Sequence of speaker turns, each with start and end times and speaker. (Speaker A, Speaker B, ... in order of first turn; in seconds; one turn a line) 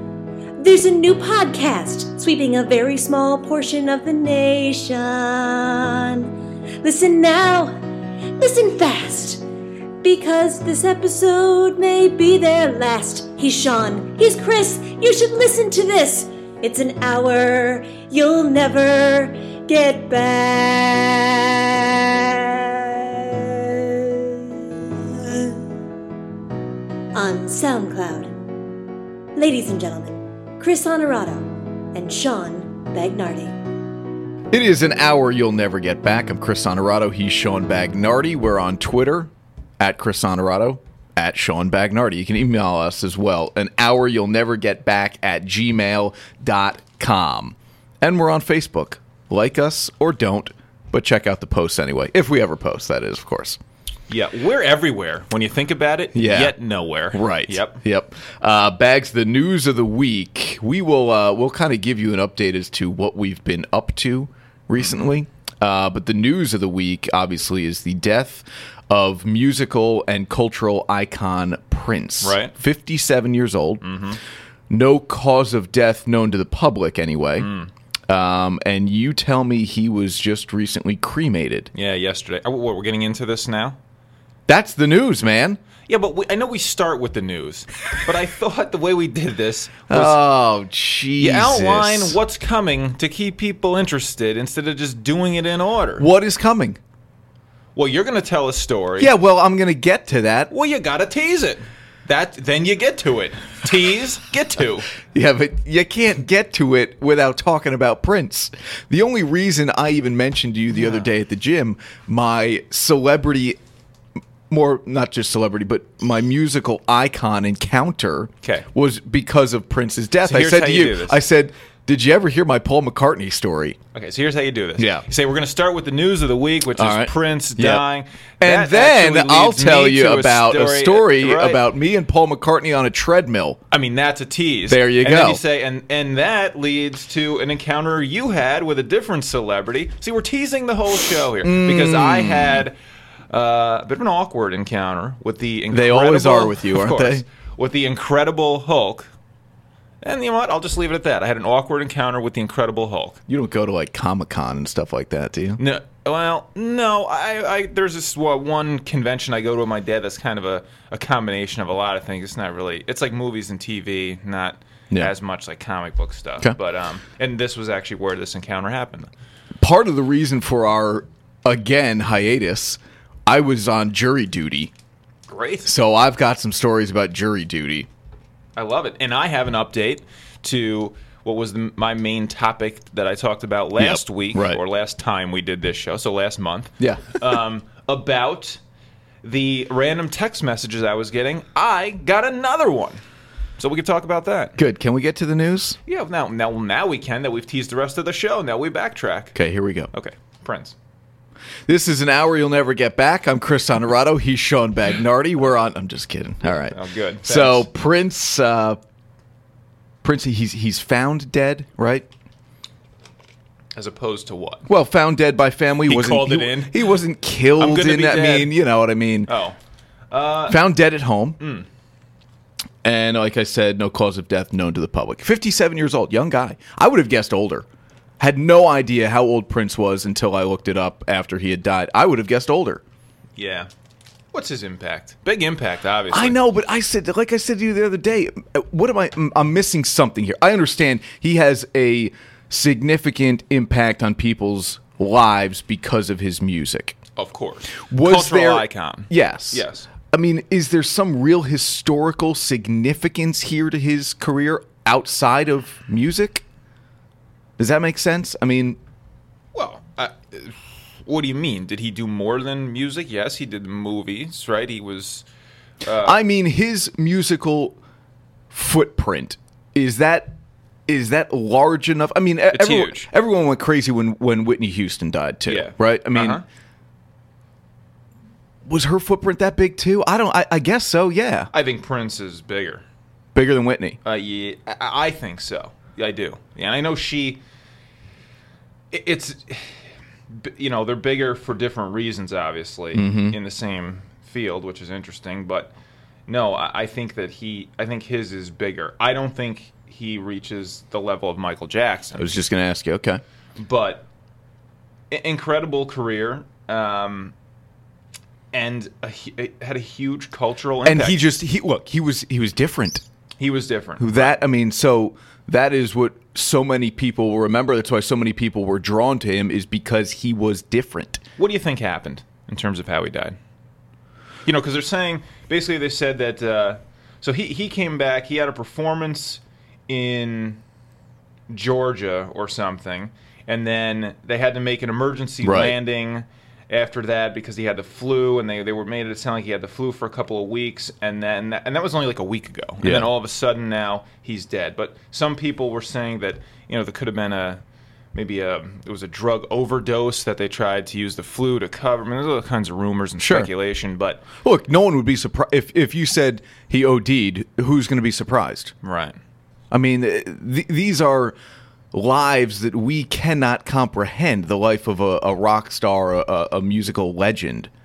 Speaker A: 0.6-7.8
Speaker A: 8.4-9.4
Speaker A: 10.0-25.6
Speaker A: 27.1-28.3
Speaker A: 29.4-33.6
Speaker B: 34.5-53.6
Speaker C: 54.1-57.8
Speaker B: 56.1-56.5
Speaker B: 57.1-73.8
Speaker C: 72.2-72.5
Speaker C: 73.8-74.2
Speaker B: 74.7-77.5
Speaker C: 77.4-77.7
Speaker B: 78.1-81.7
Speaker C: 81.7-83.8
Speaker B: 84.5-85.6
Speaker C: 85.9-90.2
Speaker B: 89.9-92.2
Speaker C: 91.2-96.1
Speaker B: 96.0-96.8
Speaker C: 97.8-99.1
Speaker B: 99.0-100.5
Speaker C: 100.5-104.9
Speaker B: 105.0-113.6
Speaker B: 114.5-123.8
Speaker C: 120.2-121.2
Speaker C: 123.9-131.6
Speaker B: 124.8-125.0
Speaker B: 126.7-127.8
Speaker B: 128.4-133.6
Speaker C: 133.7-142.8
Speaker B: 134.7-135.4
Speaker B: 141.4-142.7
Speaker C: 143.3-149.1
Speaker B: 145.7-147.2
Speaker C: 150.0-153.2
Speaker B: 153.3-155.6
Speaker C: 155.6-169.1
Speaker B: 169.6-174.7
Speaker C: 175.3-175.7
Speaker B: 175.6-177.9
Speaker C: 178.6-188.6
Speaker B: 183.8-184.6
Speaker B: 186.8-187.4
Speaker C: 189.2-193.0
Speaker C: 193.6-194.6
Speaker B: 194.6-195.8
Speaker C: 195.8-199.4
Speaker B: 199.3-199.9
Speaker C: 199.9-200.7
Speaker B: 201.7-208.8
Speaker C: 206.5-207.7
Speaker B: 210.0-212.1
Speaker C: 213.7-214.7
Speaker B: 214.7-219.3
Speaker C: 215.8-216.8
Speaker C: 217.6-218.5
Speaker C: 219.3-219.6
Speaker C: 220.1-220.6
Speaker B: 220.5-221.4
Speaker C: 221.4-221.7
Speaker B: 222.8-227.7
Speaker B: 228.2-232.8
Speaker C: 233.4-233.7
Speaker C: 234.3-236.4
Speaker B: 236.1-247.0
Speaker C: 247.2-249.9
Speaker B: 247.8-256.4
Speaker B: 257.6-258.8
Speaker C: 259.5-265.2
Speaker C: 265.8-266.1
Speaker B: 266.0-267.8
Speaker B: 268.5-270.3
Speaker B: 270.9-276.4
Speaker C: 272.5-273.1
Speaker C: 275.5-276.4
Speaker B: 278.6-281.5
Speaker C: 281.5-282.8
Speaker B: 283.3-284.0
Speaker C: 284.0-287.4
Speaker C: 288.9-295.7
Speaker B: 292.9-293.4
Speaker C: 296.3-302.3
Speaker B: 302.2-303.2
Speaker C: 303.6-304.1
Speaker C: 305.1-307.3
Speaker C: 308.5-311.2
Speaker B: 310.8-313.0
Speaker C: 313.4-314.4
Speaker B: 314.0-321.2
Speaker C: 321.4-323.4
Speaker C: 324.4-330.6
Speaker C: 331.5-347.6
Speaker B: 335.4-335.7
Speaker B: 342.8-343.1
Speaker C: 348.1-354.3
Speaker B: 353.2-353.5
Speaker B: 354.4-358.7
Speaker C: 358.8-359.2
Speaker B: 359.7-361.3
Speaker B: 361.9-367.7